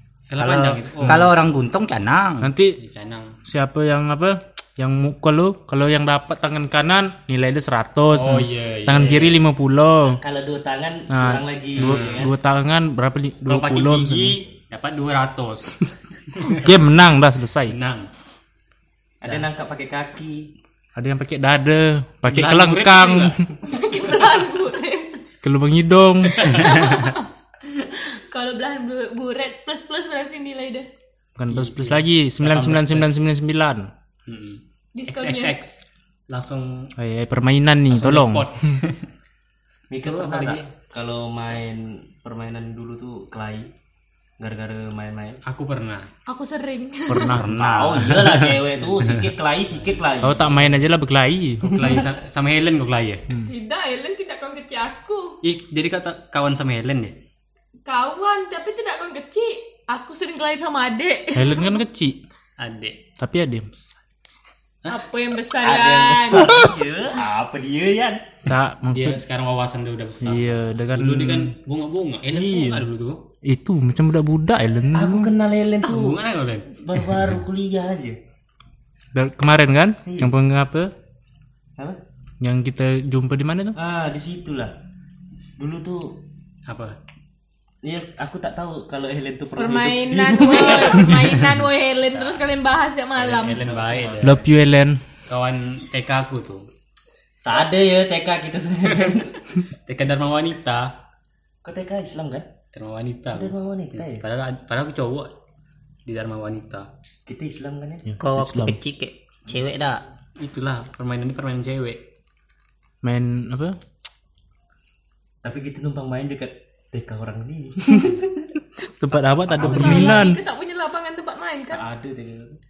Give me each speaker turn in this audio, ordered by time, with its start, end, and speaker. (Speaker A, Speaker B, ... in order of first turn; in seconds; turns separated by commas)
Speaker A: 0.3-1.3, Speaker B: 0.4-2.5, Speaker C: 2.4-2.8, Speaker A: 2.8-3.3, Speaker C: 3.5-10.2, Speaker A: 8.1-9.4, Speaker D: 10.2-12.3, Speaker C: 11.1-14.4, Speaker A: 11.8-12.3, Speaker A: 13.4-15.8, Speaker A: 16.3-16.6, Speaker C: 16.5-17.8, Speaker A: 17.7-18.1, Speaker D: 19.2-20.5, Speaker C: 20.9-23.5, Speaker A: 22.2-23.4, Speaker E: 23.7-25.2, Speaker C: 25.4-26.6, Speaker E: 26.2-30.9, Speaker A: 26.4-26.7, Speaker C: 31.4-33.9, Speaker A: 31.5-33.3, Speaker A: 34.2-36.9, Speaker E: 34.9-35.6, Speaker C: 37.0-38.8, Speaker A: 37.9-39.0, Speaker D: 39.9-43.7, Speaker A: 40.0-40.7, Speaker D: 44.4-45.4, Speaker A: 45.4-46.1, Speaker E: 46.3-47.4, Speaker C: 47.1-47.6, Speaker B: 47.4-48.6, Speaker D: 47.4-50.6, Speaker A: 49.7-50.0, Speaker C: 50.2-51.8, Speaker A: 51.6-53.3, Speaker D: 51.7-52.0, Speaker E: 53.5-55.4, Speaker A: 55.4-57.1, Speaker E: 57.9-61.8, Speaker C: 61.3-62.2, Speaker A: 62.6-63.0, Speaker C: 63.2-64.0, Speaker E: 64.9-66.6, Speaker D: 65.6-68.2, Speaker C: 68.5-69.2, Speaker A: 68.8-73.2, Speaker C: 70.2-71.5, Speaker C: 72.3-72.9, Speaker C: 73.4-75.3, Speaker D: 74.9-78.2, Speaker A: 75.8-76.7, Speaker C: 79.1-80.9, Speaker D: 80.0-80.3, Speaker C: 82.4-83.8, Speaker D: 83.8-84.7, Speaker D: 85.6-86.2, Speaker A: 86.7-87.0, Speaker D: 87.8-91.4, Speaker E: 89.6-93.7, Speaker A: 93.2-94.4, Speaker D: 93.5-94.4, Speaker C: 94.2-95.0, Speaker A: 95.3-96.7, Speaker D: 97.4-99.4, Speaker A: 98.8-99.2, Speaker A: 99.8-100.9, Speaker D: 101.6-102.5, Speaker A: 102.7-105.3, Speaker D: 103.3-104.2, Speaker A: 106.0-106.9, Speaker D: 107.2-108.1, Speaker C: 108.1-108.8, Speaker B: 108.2-110.0, Speaker A: 110.4-112.0, Speaker C: 113.0-113.8, Speaker D: 115.4-118.5, Speaker C: 119.0-120.4, Speaker D: 119.5-120.2, Speaker E: 119.6-121.8, Speaker D: 121.7-122.6